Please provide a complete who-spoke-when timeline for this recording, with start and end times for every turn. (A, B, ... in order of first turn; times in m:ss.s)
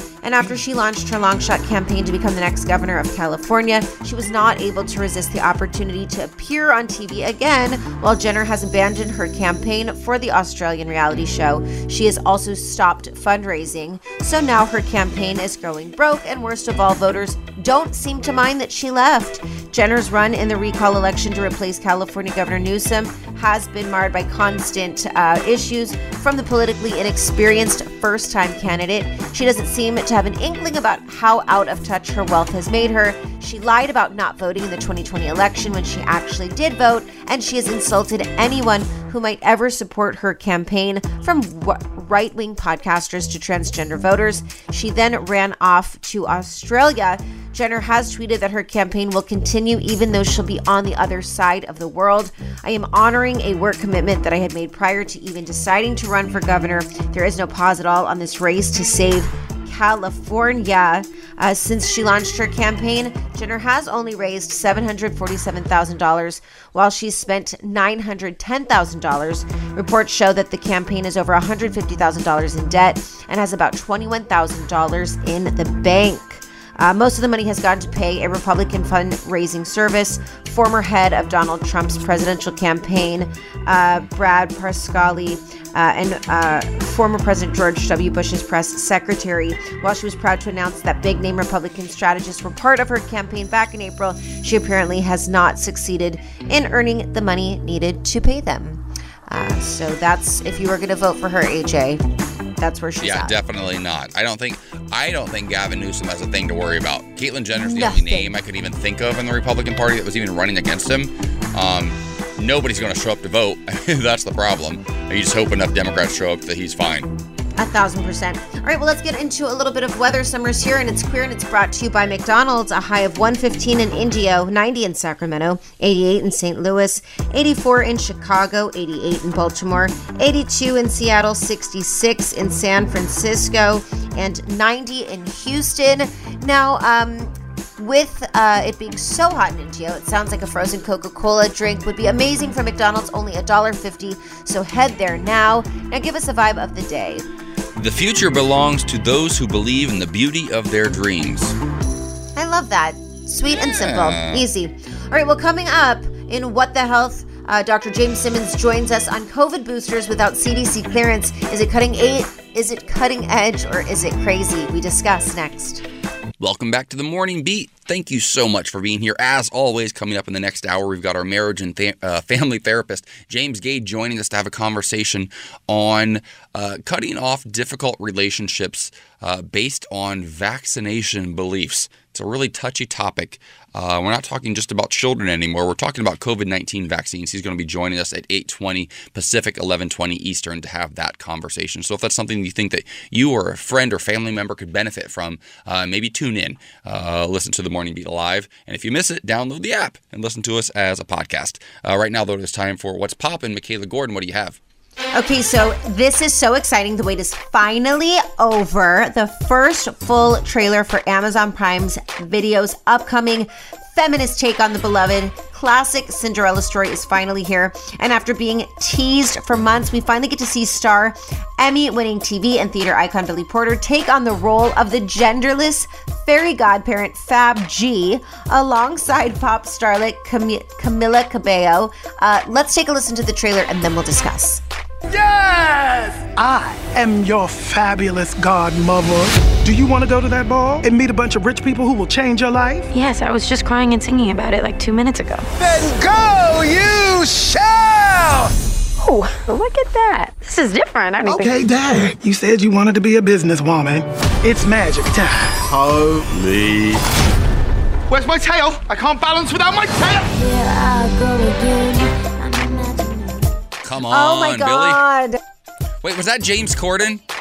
0:00.2-1:42.0 A
1:42.6-1:43.4 A
1:43.0-1:57.1 B
1:47.6-1:48.3 A
1:57.6-2:27.2 A
2:27.8-2:31.6 B
2:32.4-2:45.8 A
2:33.5-2:34.4 B
2:46.4-3:24.6 B
3:25.1-3:54.6 A
3:55.1-4:02.9 C
4:02.9-4:05.5 D
4:05.6-4:08.5 C
4:09.0-4:11.7 D
4:11.2-4:15.6 C
4:15.7-4:17.0 E
4:18.1-4:19.4 C
4:18.7-4:20.0 E
4:20.4-4:23.4 D
4:23.8-4:25.0 B
4:24.1-4:25.4 A
4:26.0-4:27.2 B